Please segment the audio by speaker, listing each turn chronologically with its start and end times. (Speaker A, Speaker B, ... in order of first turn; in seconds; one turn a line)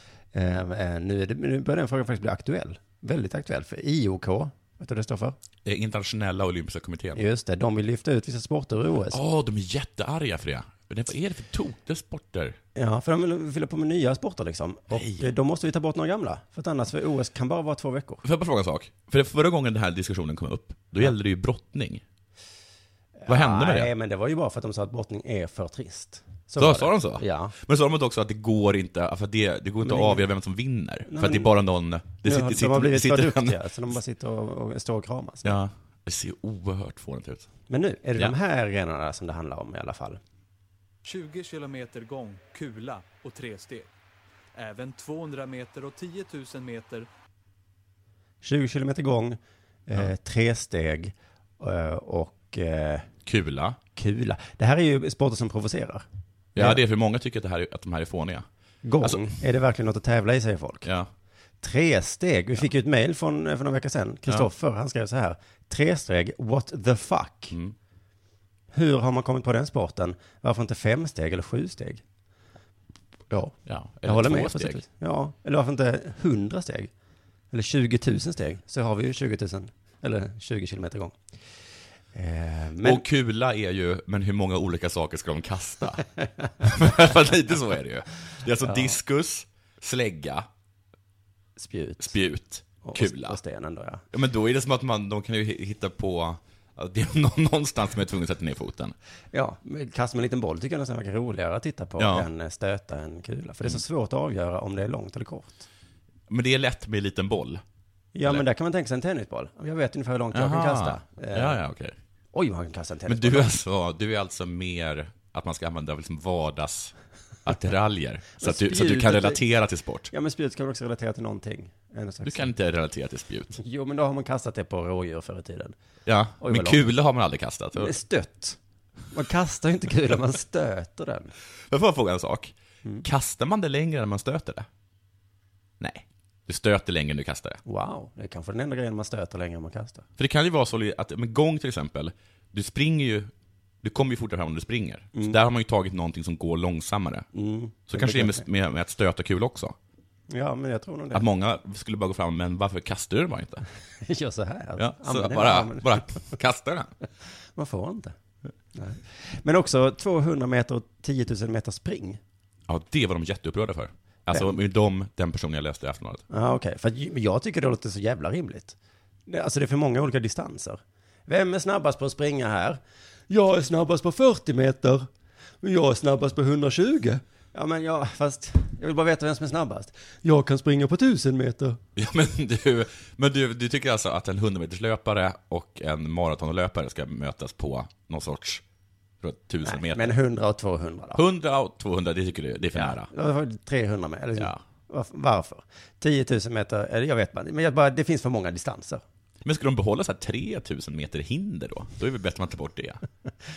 Speaker A: 0.3-5.3
Speaker B: 5.6-7.2
Speaker A: 7.1-9.2
Speaker B: 9.1-12.6
Speaker A: 12.7-18.2
Speaker B: 14.9-15.3
Speaker B: 18.2-22.0
Speaker A: 23.2-27.5
Speaker B: 23.3-23.9
Speaker B: 26.6-33.6
Speaker A: 29.8-30.2
Speaker A: 31.1-31.5
Speaker A: 32.2-35.6
Speaker B: 35.4-37.5
Speaker A: 37.7-40.2
Speaker C: 41.0-43.9
Speaker C: 44.5-47.1
Speaker A: 48.4-53.1
Speaker B: 53.2-53.8
Speaker A: 53.9-56.0
Speaker B: 56.5-58.5
Speaker A: 58.8-60.9
Speaker B: 59.0-59.2
Speaker A: 61.6-67.6
Speaker A: 68.7-72.0
Speaker A: 73.3-76.9
Speaker B: 73.7-74.8
Speaker A: 77.5-81.2
Speaker A: 82.1-83.0
Speaker B: 82.8-86.0
Speaker B: 86.6-90.5
Speaker A: 88.6-89.0
Speaker A: 91.6-92.1
Speaker B: 92.0-93.4
Speaker A: 92.8-94.0
Speaker B: 94.1-98.9
Speaker A: 99.3-105.6
Speaker B: 102.0-102.3
Speaker B: 106.3-107.6
Speaker A: 108.1-111.6
Speaker B: 110.3-112.0
Speaker A: 112.3-113.5
Speaker B: 113.1-116.9
Speaker B: 117.4-120.1
Speaker A: 118.4-119.4
Speaker A: 120.1-122.5
Speaker B: 122.2-123.6
Speaker A: 123.6-125.7
Speaker B: 126.0-127.9
Speaker A: 126.4-126.8
Speaker A: 127.7-128.6
Speaker A: 129.1-131.3
Speaker B: 131.7-134.7
Speaker B: 135.8-137.6
Speaker A: 137.7-140.1
Speaker B: 140.2-143.3
Speaker B: 143.8-147.3
Speaker A: 147.3-148.4
Speaker B: 147.9-149.8
Speaker A: 150.3-151.2
Speaker B: 151.1-153.6
Speaker A: 154.0-156.2
Speaker B: 154.8-156.9
Speaker A: 157.5-158.2
Speaker A: 158.7-162.2
Speaker B: 162.7-166.2
Speaker A: 166.3-175.1
Speaker A: 175.6-181.8
Speaker B: 181.9-188.6
Speaker B: 189.2-190.2
Speaker A: 189.6-191.2
Speaker B: 191.1-193.1
Speaker A: 192.7-199.0
Speaker B: 199.4-203.0